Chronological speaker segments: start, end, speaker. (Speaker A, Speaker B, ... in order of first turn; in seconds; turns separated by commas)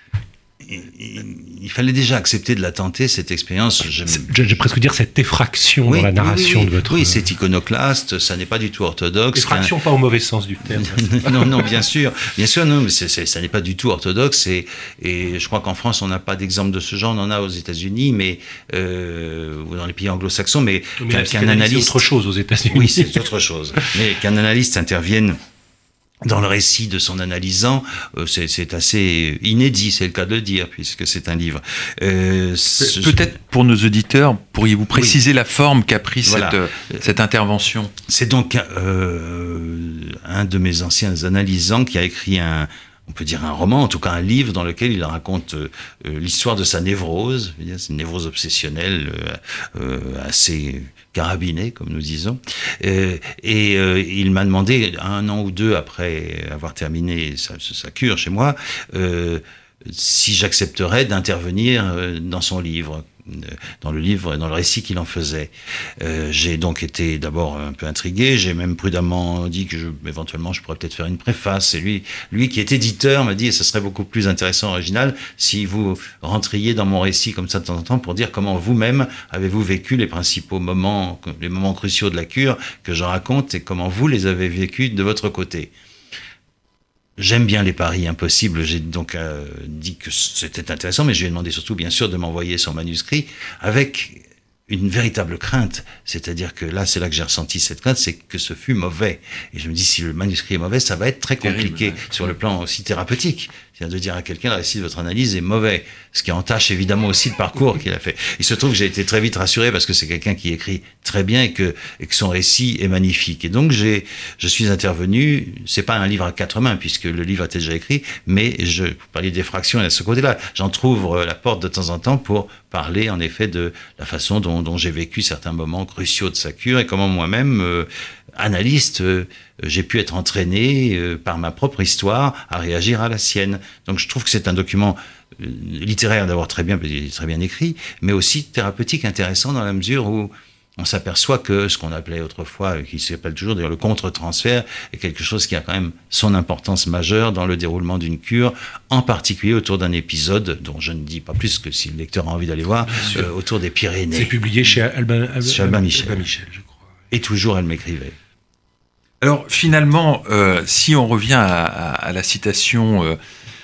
Speaker A: 0.6-4.3, Speaker B: 4.1-7.2, Speaker A: 5.8-9.7, Speaker B: 9.3-11.7, Speaker A: 10.7-22.0, Speaker B: 21.0-23.2, Speaker A: 22.7-25.4, Speaker A: 26.2-33.3, Speaker C: 32.8-37.9, Speaker A: 34.9-35.2, Speaker A: 36.2-37.0, Speaker A: 38.1-85.7, Speaker A: 87.2-154.3, Speaker C: 101.4-102.1, Speaker B: 154.1-156.8, Speaker A: 155.4-156.2, Speaker A: 157.1-158.2, Speaker C: 159.2-163.2